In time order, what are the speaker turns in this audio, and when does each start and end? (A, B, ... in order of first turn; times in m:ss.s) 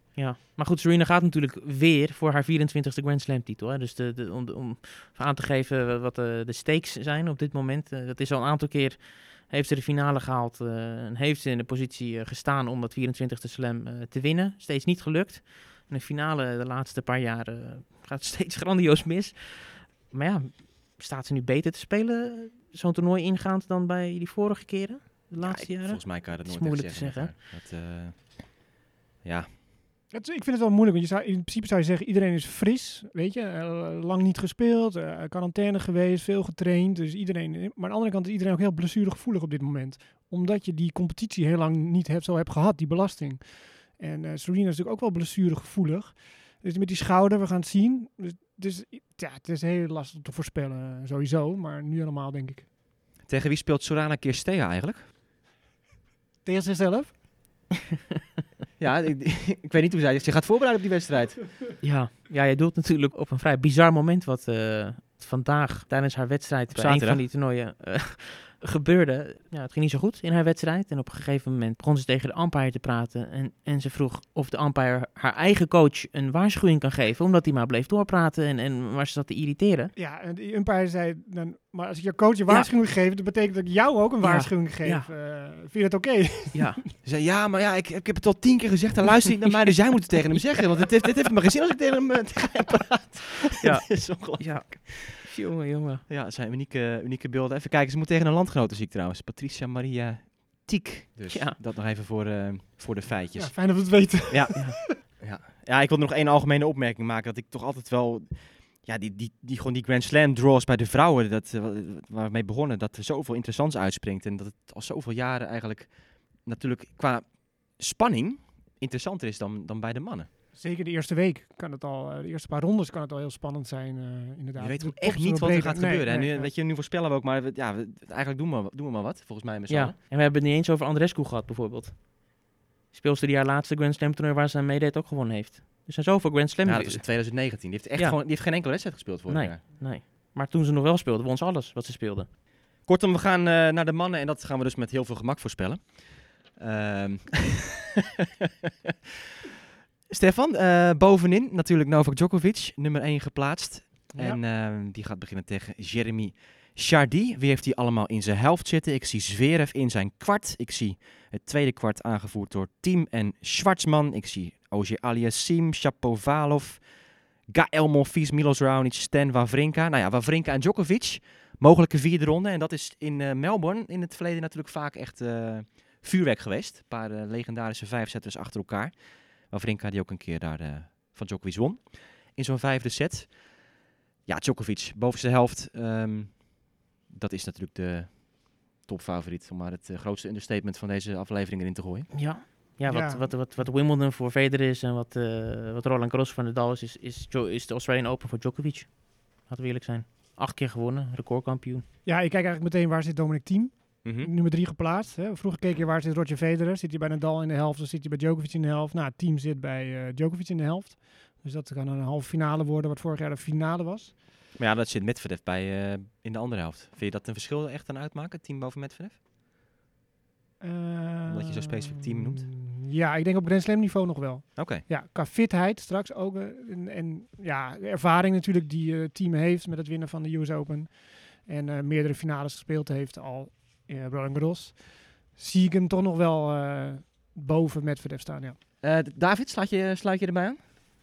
0:00.1-0:27.4 A
0:25.4-0:28.7 B
0:29.2-0:29.5 B
0:30.1-0:52.7 C
0:53.2-0:55.1 B
0:56.4-0:57.2 C
0:58.8-1:01.6 B
1:01.8-1:19.9 A
1:06.7-1:07.2 B
1:20.0-1:26.8 C
1:24.2-1:25.1 A
1:26.5-1:26.8 A
1:27.0-1:35.1 B
1:33.6-1:36.0 A
1:36.1-2:00.3 B
1:41.3-1:41.6 A
1:43.4-1:45.0 C
2:00.5-2:06.5 C
2:04.6-2:10.0 B
2:09.7-2:22.3 A
2:16.6-2:19.6 B
2:22.8-2:27.7 B
2:30.1-2:46.9 B
2:34.1-2:34.4 C
2:47.4-3:03.6 B
3:04.3-3:12.1 B
3:12.1-3:21.8 A
3:12.9-3:13.7 C
3:22.0-3:34.2 C
3:24.0-3:24.3 B
3:34.6-3:39.2 B
3:40.6-3:58.6 C
3:41.3-3:42.5 B
3:44.6-3:44.9 B
3:58.8-4:00.6 B